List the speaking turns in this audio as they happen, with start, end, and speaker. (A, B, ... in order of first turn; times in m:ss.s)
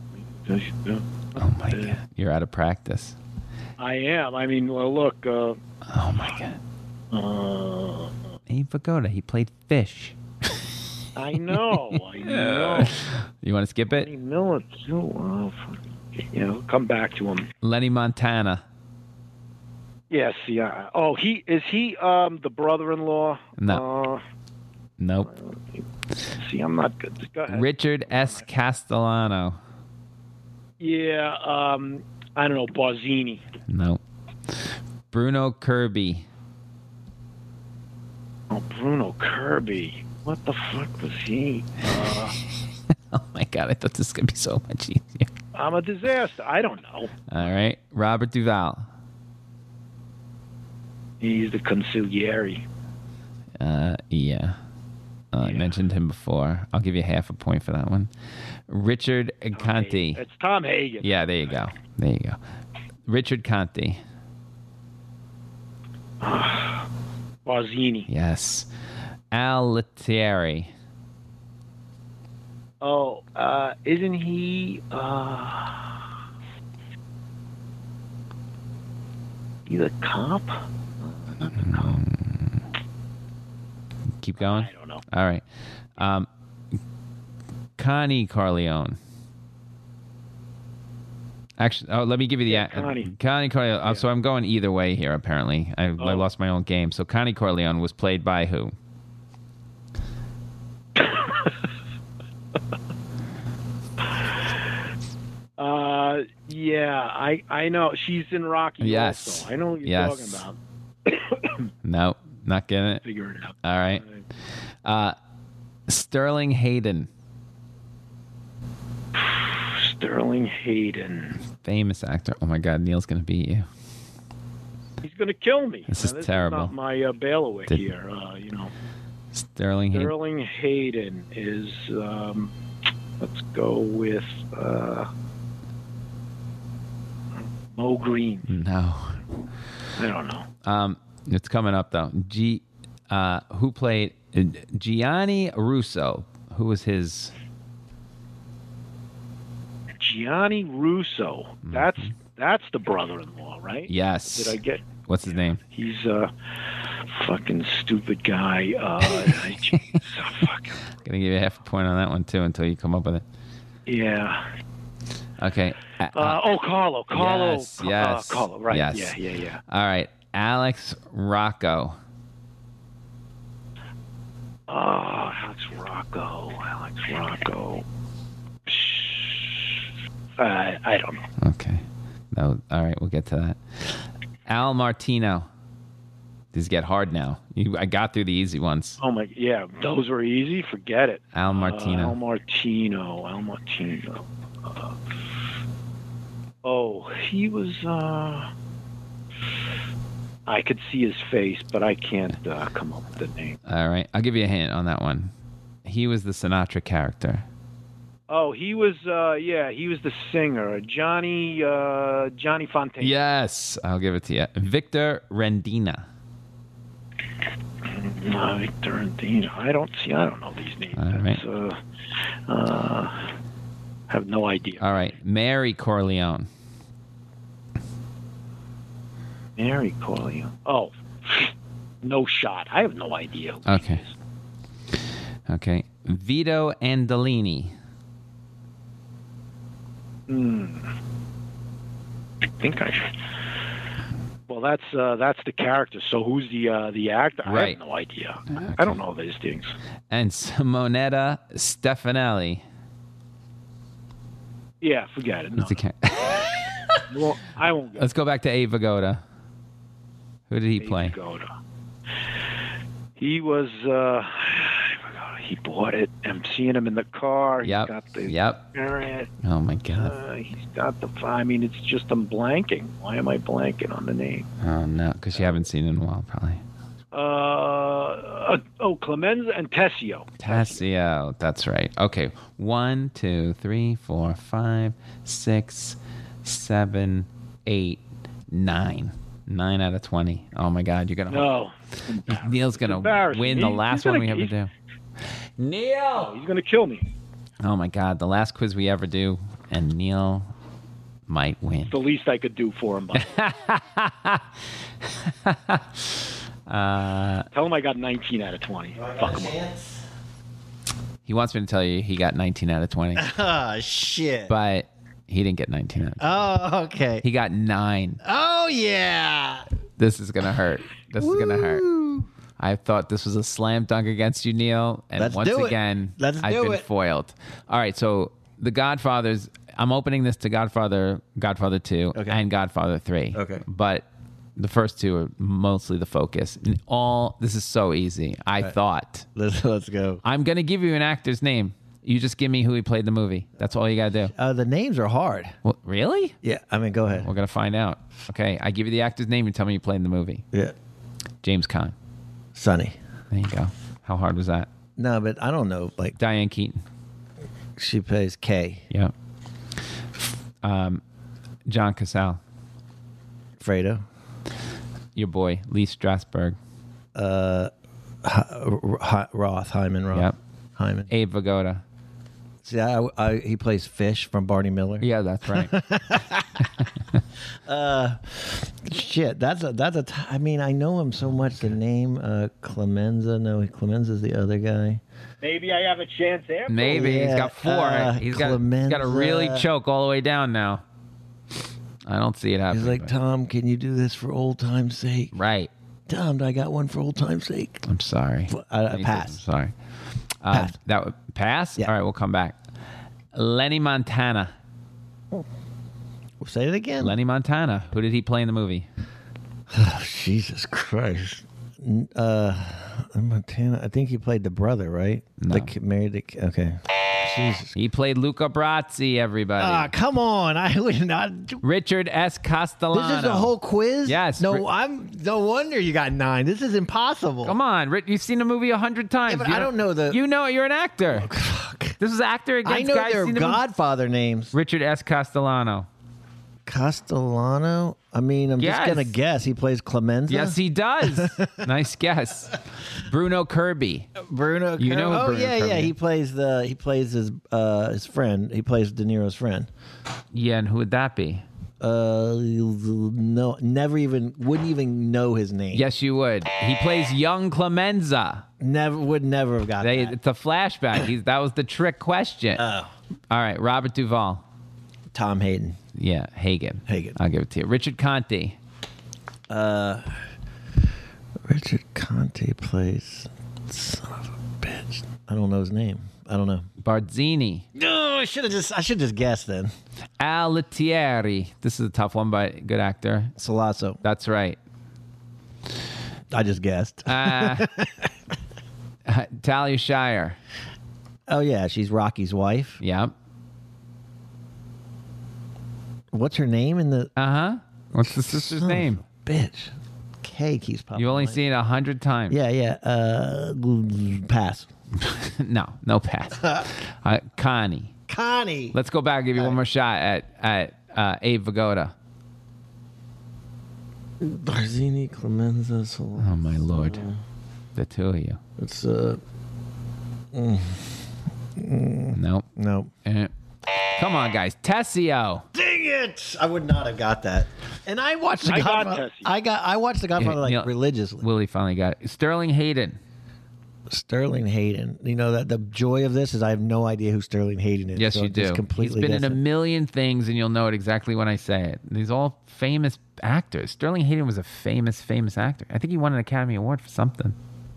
0:00.4-0:02.0 A
0:01.4-0:03.2 B
0:03.8-0:05.6 A
0:05.9-0:06.6 B
0:07.1-0:08.2 A
0:08.5-0:10.2 B
0:11.2-0:13.0 A
0:11.5-0:14.1 B
0:13.9-0:17.5 A
0:17.6-0:18.6 B
0:20.1-0:24.2 A
0:25.0-0:25.3 B
0:25.2-0:28.4 A
0:27.5-0:29.6 B
0:30.8-0:33.4 A
0:33.7-0:34.0 B
0:35.1-0:36.2 B
0:38.5-0:42.4 A
0:43.1-0:45.3 B
0:45.5-0:47.2 A
0:47.3-0:48.8 B
0:51.2-0:52.6 A
0:53.6-0:54.6 B
0:55.3-0:58.1 B
0:55.4-0:55.7 A
0:58.7-1:00.2 B
0:59.5-1:01.6 A
1:01.0-1:02.4 B
1:03.1-1:04.0 B
1:06.2-1:06.8 A
1:07.4-1:08.1 A
1:08.1-1:08.7 B
1:09.3-1:10.7 B
1:12.8-1:15.9 A
1:19.7-1:22.0 A
1:21.6-1:22.6 B
1:24.2-1:25.4 B
1:24.4-1:25.0 A
1:26.0-1:26.3 B
1:27.8-1:29.0 B
1:31.6-1:38.7 B
1:32.5-1:33.1 A
1:36.0-1:36.2 A
1:41.0-1:41.3 A
1:45.6-1:51.6 A
1:48.8-1:50.4 B
1:51.8-1:53.0 B
1:53.0-1:54.2 A
1:53.6-1:54.0 B
1:54.8-1:55.1 B
1:55.9-1:57.1 B
1:59.2-2:01.4 A
2:01.6-2:03.7 B
2:05.0-2:08.7 A
2:05.9-2:06.7 B
2:09.4-2:10.1 B
2:09.9-2:12.5 A
2:13.2-2:15.1 A
2:17.7-2:18.5 A
2:18.5-2:19.2 B
2:20.0-2:20.4 A
2:20.6-2:27.3 B
2:30.0-2:34.8 A
2:31.6-2:32.1 B
2:33.9-2:35.6 B
2:35.7-2:36.3 A
2:37.1-2:40.8 A
2:41.0-2:43.2 B
2:43.9-2:44.5 A
2:45.4-2:46.4 B
2:46.1-2:49.6 A
2:47.1-2:49.2 B
2:49.7-2:52.0 B
2:54.7-2:57.8 A
2:58.6-2:59.7 A
3:00.4-3:01.2 A
3:01.4-3:03.6 B
3:04.5-3:05.5 B
3:06.5-3:09.0 B
3:09.0-3:14.9 A
3:11.3-3:12.2 B
3:16.6-3:18.5 A
3:20.5-3:23.6 A
3:23.7-3:25.3 B
3:25.8-3:27.4 B
3:28.3-3:33.1 A
3:33.0-3:36.0 B
3:37.9-3:41.8 A
3:41.0-3:41.4 B
3:42.5-3:43.3 A
3:44.1-3:45.1 A
3:44.8-3:46.5 B
3:49.6-3:51.5 A
3:52.0-3:54.1 A
3:53.6-3:54.0 B
3:55.5-3:57.7 B
4:00.3-4:00.9 A
4:02.6-4:03.2 A
4:04.5-4:09.7 A
4:07.4-4:07.8 B
4:08.5-4:08.9 B
4:10.1-4:12.6 B
4:14.8-4:15.8 A
4:15.6-4:16.9 B
4:17.1-4:18.1 A
4:18.0-4:19.2 B
4:20.5-4:21.1 B
4:20.8-4:21.5 A
4:23.2-4:29.3 A
4:27.6-4:28.6 B
4:29.4-4:30.1 B
4:29.9-4:34.5 A
4:34.6-4:36.6 B
4:35.4-4:35.6 A
4:37.1-4:40.8 A
4:40.4-4:51.5 B
4:51.3-4:54.5 A
4:52.3-4:54.7 B
4:55.6-4:56.3 B
4:56.1-4:57.1 A
4:57.6-5:00.5 B
5:01.3-5:01.9 B
5:01.9-5:03.4 A
5:03.2-5:04.4 B
5:05.1-5:06.1 B
5:06.7-5:07.5 B
5:07.5-5:09.5 A
5:09.0-5:10.0 C
5:11.2-5:13.3 B
5:13.2-5:14.5 C
5:14.5-5:16.4 B
5:16.2-5:17.2 C
5:17.2-5:18.2 B
5:18.2-5:19.6 C
5:20.0-5:21.8 B
5:21.2-5:22.3 C
5:22.6-5:34.0 B
5:25.2-5:26.8 C
5:32.1-5:32.4 C
5:33.3-5:33.6 C
5:34.6-5:39.3 B
5:39.4-5:40.2 C
5:40.2-5:44.3 B
5:44.3-5:45.6 C
5:45.6-5:46.3 B
5:46.4-5:47.3 C
5:47.2-5:50.4 B
5:51.4-5:51.9 B
5:52.5-5:53.0 C
5:53.3-5:54.7 B
5:55.0-5:56.2 C
5:56.2-5:56.8 B
5:57.8-5:58.8 C
6:00.6-6:01.0 B
6:01.7-6:02.4 B
6:03.6-6:04.0 C
6:05.2-6:06.6 B
6:07.1-6:07.7 C
6:08.2-6:11.1 C
6:11.1-6:11.8 B
6:12.6-6:16.6 C
6:15.0-6:15.7 B
6:17.7-6:25.0 C
6:25.4-6:27.1 A
6:26.7-6:30.8 B
6:26.9-6:29.7 C
6:32.0-6:33.1 B
6:32.7-6:35.3 C
6:35.3-6:35.7 B
6:36.1-6:37.8 C
6:37.8-6:39.7 B
6:38.5-6:39.4 C
6:40.4-6:42.5 B
6:43.3-6:44.5 B
6:46.4-6:47.1 C
6:47.0-6:48.8 B
6:49.7-6:57.7 C
6:55.4-6:55.7 B
6:57.7-6:59.9 B
6:59.6-7:01.6 C
7:01.6-7:03.5 B
7:02.9-7:07.6 C
7:04.0-7:04.6 B
7:07.4-7:11.3 B
7:09.3-7:10.2 C
7:11.1-7:12.0 C
7:12.0-7:13.6 B
7:12.6-7:14.5 C
7:14.5-7:15.9 B
7:16.6-7:21.6 C
7:18.6-7:19.1 B
7:20.3-7:24.1 B
7:24.2-7:29.7 C
7:24.8-7:25.9 B
7:30.3-7:31.4 B
7:31.8-7:35.8 C
7:35.7-7:38.4 B
7:38.6-7:40.2 C
7:39.8-7:42.6 B
7:42.5-7:42.9 C
7:43.3-7:44.4 B
7:45.1-7:45.8 C
7:46.0-7:48.6 B
7:46.9-7:47.2 C
7:49.5-7:50.2 C
7:51.4-7:56.6 C
7:56.8-7:57.6 B
7:57.7-7:59.7 C
8:00.2-8:03.3 B
8:03.4-8:04.0 C
8:04.0-8:04.6 B
8:06.3-8:08.1 C
8:07.1-8:07.7 B
8:09.0-8:10.4 B
8:11.3-8:12.8 C
8:12.8-8:13.1 B
8:16.1-8:17.1 C
8:17.2-8:19.0 B
8:18.0-8:21.4 C
8:20.9-8:22.4 B
8:22.3-8:24.7 C
8:25.0-8:27.9 B
8:28.1-8:28.8 C
8:28.7-8:31.9 B
8:34.2-8:37.2 C
8:36.2-8:37.0 B
8:37.7-8:38.4 B
8:38.6-8:39.2 C
8:40.3-8:40.9 C
8:41.6-8:42.9 C
8:42.1-8:42.4 B
8:43.0-8:43.3 B
8:44.0-8:45.4 B
8:45.5-8:51.2 C
8:48.4-8:49.3 A
8:50.2-8:50.7 B
8:51.2-8:53.0 B
8:53.9-8:59.4 C
8:58.0-9:07.4 B